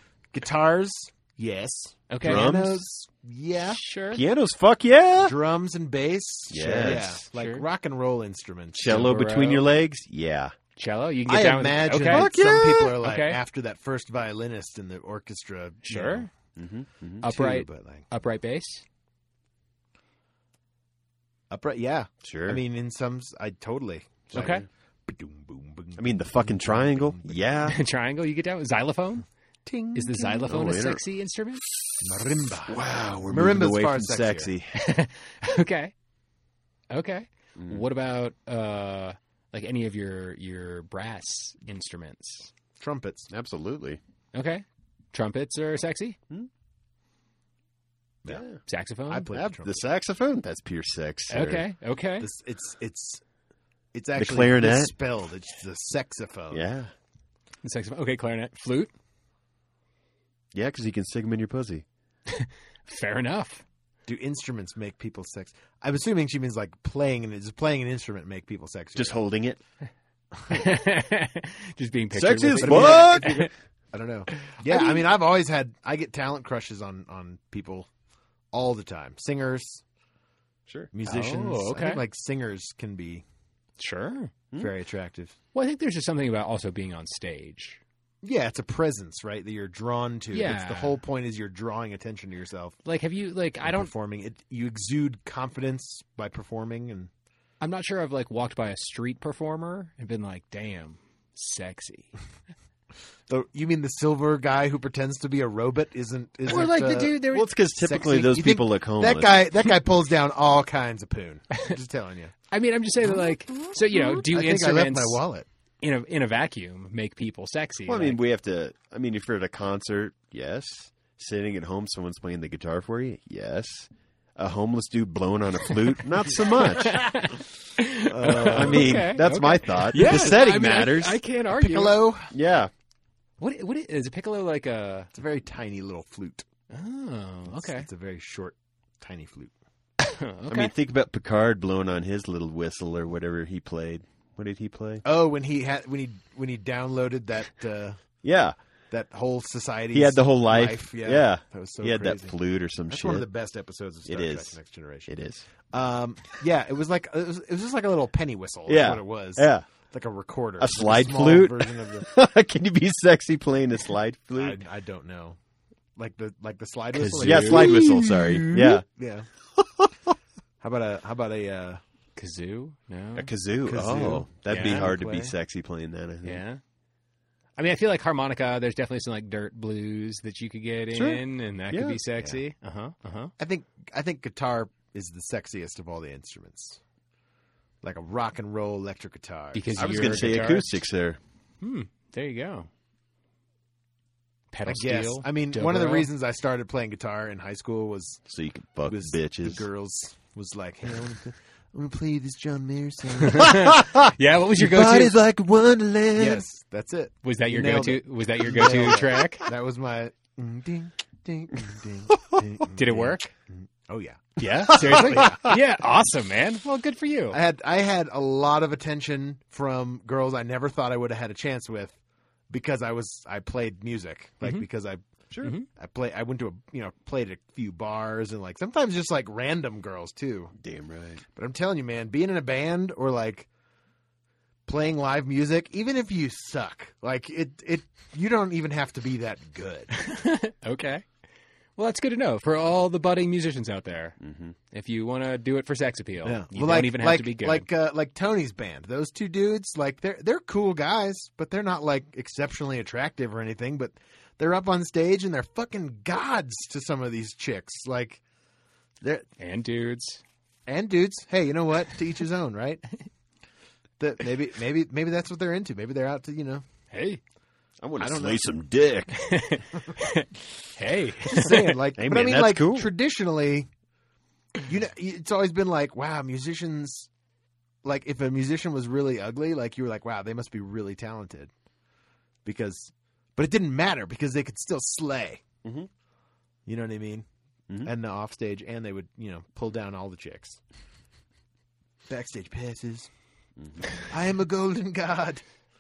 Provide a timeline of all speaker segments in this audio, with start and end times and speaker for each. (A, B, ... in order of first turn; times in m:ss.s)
0:00.3-0:03.8 A
0:02.1-0:02.5 B
0:02.2-0:02.8 C
0:03.7-0:04.2 B
0:04.1-0:05.4 C
0:05.2-0:09.1 A
0:06.5-0:07.2 C
0:06.8-0:07.6 B
0:08.7-0:10.5 C
0:08.8-0:09.6 B
0:10.8-0:12.3 B
0:11.3-0:16.3 A
0:12.0-0:13.0 C
0:13.0-0:13.4 B
0:15.8-0:16.3 B
0:16.6-0:17.2 C
0:17.2-0:18.0 A
0:17.2-0:18.8 B
0:21.5-0:27.4 A
0:22.2-0:22.6 C
0:24.3-0:24.6 C
0:24.3-0:24.6 B
0:26.0-0:27.8 C
0:27.7-0:29.2 B
0:29.6-0:30.5 A
0:29.9-0:31.6 B
0:30.4-0:31.0 C
0:31.7-0:34.8 C
0:32.0-0:34.5 A
0:34.7-0:35.9 B
0:36.9-0:42.5 B
0:37.6-0:37.8 C
0:42.8-0:43.3 A
0:43.3-0:44.0 C
0:44.3-0:46.2 B
0:48.3-0:48.6 C
0:48.6-0:49.3 B
0:49.1-0:49.8 A
0:49.3-0:51.6 C
0:51.3-0:52.3 B
0:52.2-0:53.2 A
0:53.9-0:56.7 A
0:54.2-0:54.9 C
0:56.5-0:56.9 C
0:57.6-0:58.9 B
1:00.5-1:01.8 C
1:02.3-1:03.6 B
1:04.0-1:09.2 A
1:08.9-1:09.6 C
1:10.4-1:10.6 A
1:10.5-1:13.5 B
1:12.1-1:13.5 C
1:12.6-1:17.9 A
1:14.4-1:15.0 B
1:18.5-1:19.8 A
1:20.9-1:23.2 A
1:21.0-1:22.0 B
1:23.8-1:24.3 B
1:24.6-1:25.3 A
1:25.5-1:27.8 B
1:28.2-1:32.8 A
1:30.3-1:31.0 B
1:32.8-1:33.9 B
1:33.6-1:37.1 A
1:37.6-1:42.1 B
1:43.3-1:52.3 A
1:46.4-1:49.4 C
1:52.5-1:55.2 B
1:53.0-1:55.4 A
1:55.8-1:58.2 B
1:57.9-2:07.2 C
2:06.6-2:12.0 B
2:08.1-2:09.1 A
2:08.2-2:11.2 C
2:11.5-2:12.3 A
2:12.3-2:12.7 C
2:13.4-2:15.1 B
2:15.1-2:16.4 A
2:16.7-2:17.9 B
2:17.5-2:19.5 A
2:20.0-2:20.7 B
2:20.5-2:25.0 C
2:25.0-2:28.0 A
2:28.2-2:28.5 C
2:28.9-2:32.4 A
2:29.9-2:33.3 C
2:32.9-2:35.1 A
2:34.0-2:35.4 C
2:35.7-2:42.1 A
2:38.7-2:39.7 C
2:40.6-2:44.6 C
2:44.4-2:45.4 A
2:46.0-2:49.3 A
2:46.9-2:47.9 B
2:47.2-2:48.8 C
2:49.6-2:49.9 C
2:50.6-2:51.8 A
2:52.2-2:53.3 B
2:53.2-2:56.4 C
2:53.6-2:55.3 A
2:54.5-2:54.8 B
2:56.2-2:56.6 B
2:57.6-3:03.3 B
3:00.9-3:02.0 C
3:03.4-3:06.8 A
3:07.8-3:10.3 A
3:09.5-3:10.7 B
3:09.8-3:11.2 C
3:11.6-3:12.7 B
3:14.5-3:16.1 B
3:14.6-3:18.2 A
3:18.3-3:19.6 C
3:18.9-3:23.8 A
3:23.2-3:25.2 B
3:24.5-3:26.4 C
3:26.1-3:35.6 A
3:27.2-3:29.5 B
3:32.7-3:33.3 B
3:34.4-3:37.4 B
3:37.3-3:42.0 A
3:42.5-3:45.0 A
3:45.7-3:50.5 A
3:50.6-3:51.2 C
3:51.4-3:53.5 A
3:54.7-3:59.9 A
3:59.9-4:01.0 B
4:01.8-4:04.2 B
4:04.2-4:04.6 C
4:04.7-4:07.6 B
4:06.2-4:18.2 A
4:19.0-4:19.2 A
4:19.4-4:20.2 B
4:20.7-4:22.8 A
4:24.0-4:26.6 A
4:26.9-4:27.2 B
4:27.8-4:29.2 C
4:28.0-4:28.5 A
4:29.1-4:31.7 B
4:31.2-4:33.7 A
4:31.9-4:32.9 C
4:34.6-4:37.1 A
4:37.8-4:41.5 A
4:42.4-4:45.4 A
4:45.6-4:45.9 C
4:46.6-4:47.2 A
4:47.8-4:50.6 A
4:52.1-4:53.1 A
4:53.6-4:53.9 C
4:54.1-4:55.4 A